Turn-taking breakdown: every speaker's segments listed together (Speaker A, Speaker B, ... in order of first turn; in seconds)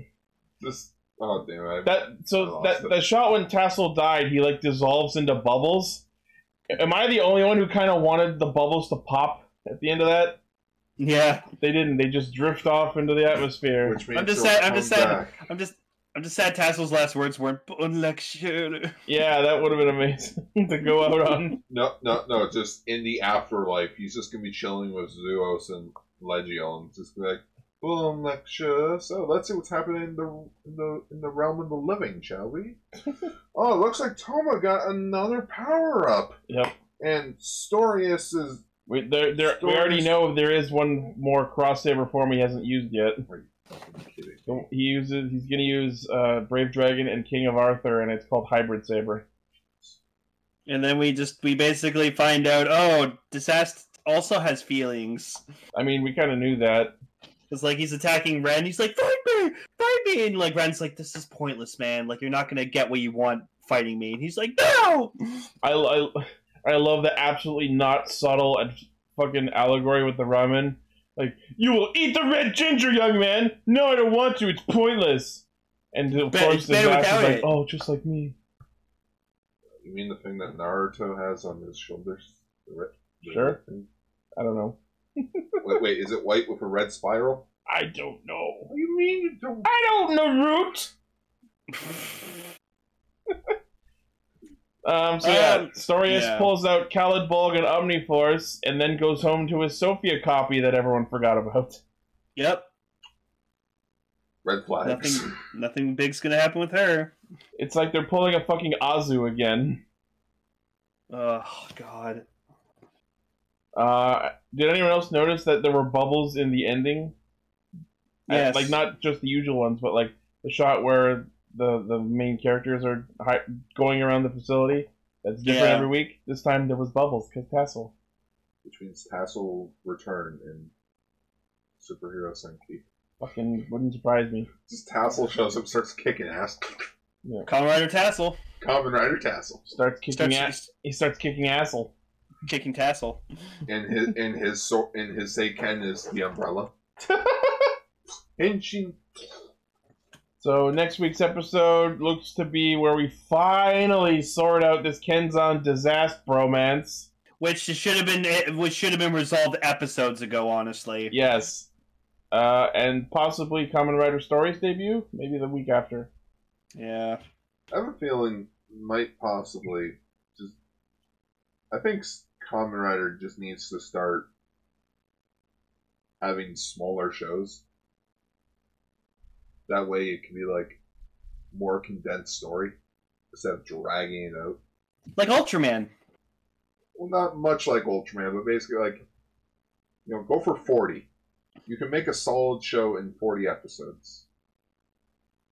Speaker A: 0.6-3.0, 13.8-15.3, 21.7-32.8, 33.5-36.4, 37.0-38.6, 39.4-40.1, 43.3-44.6, 79.8-83.9, 85.6-87.5, 88.7-89.7, 104.4-105.3, 128.6-130.7, 131.8-132.8, 134.7-136.8, 138.6-139.6, 143.7-146.7, 148.4-149.0, 167.7-170.5, 171.7-174.3, 176.2-177.6, 179.7-180.8, 181.5-182.8, 183.3-184.6, 186.9-189.0, 190.1-191.1, 191.7-194.2
Speaker B: 1.8-6.0, 6.7-10.4, 11.6-14.0, 19.1-21.6, 36.5-36.7, 38.9-43.2, 44.5-49.2, 55.7-56.9, 65.6-78.3, 83.3-83.6, 84.4-85.6, 87.7-88.7, 89.6-90.9, 94.8-101.8, 107.5-109.8, 113.8-117.1, 118.3-127.9, 133.2-134.5, 139.7-141.9, 147.1-147.7, 150.4-157.1, 161.1-161.7, 162.3-166.1
Speaker C: 11.0-11.4, 14.1-18.9, 50.7-55.4, 57.5-65.1, 76.3-77.5, 95.2-96.5, 102.3-102.7, 104.8-107.1, 111.1-112.2, 118.3-118.8, 125.4-125.9, 137.4-138.4, 140.1-140.7, 142.4-143.2, 157.4-161.1, 166.7-167.2, 185.2-185.9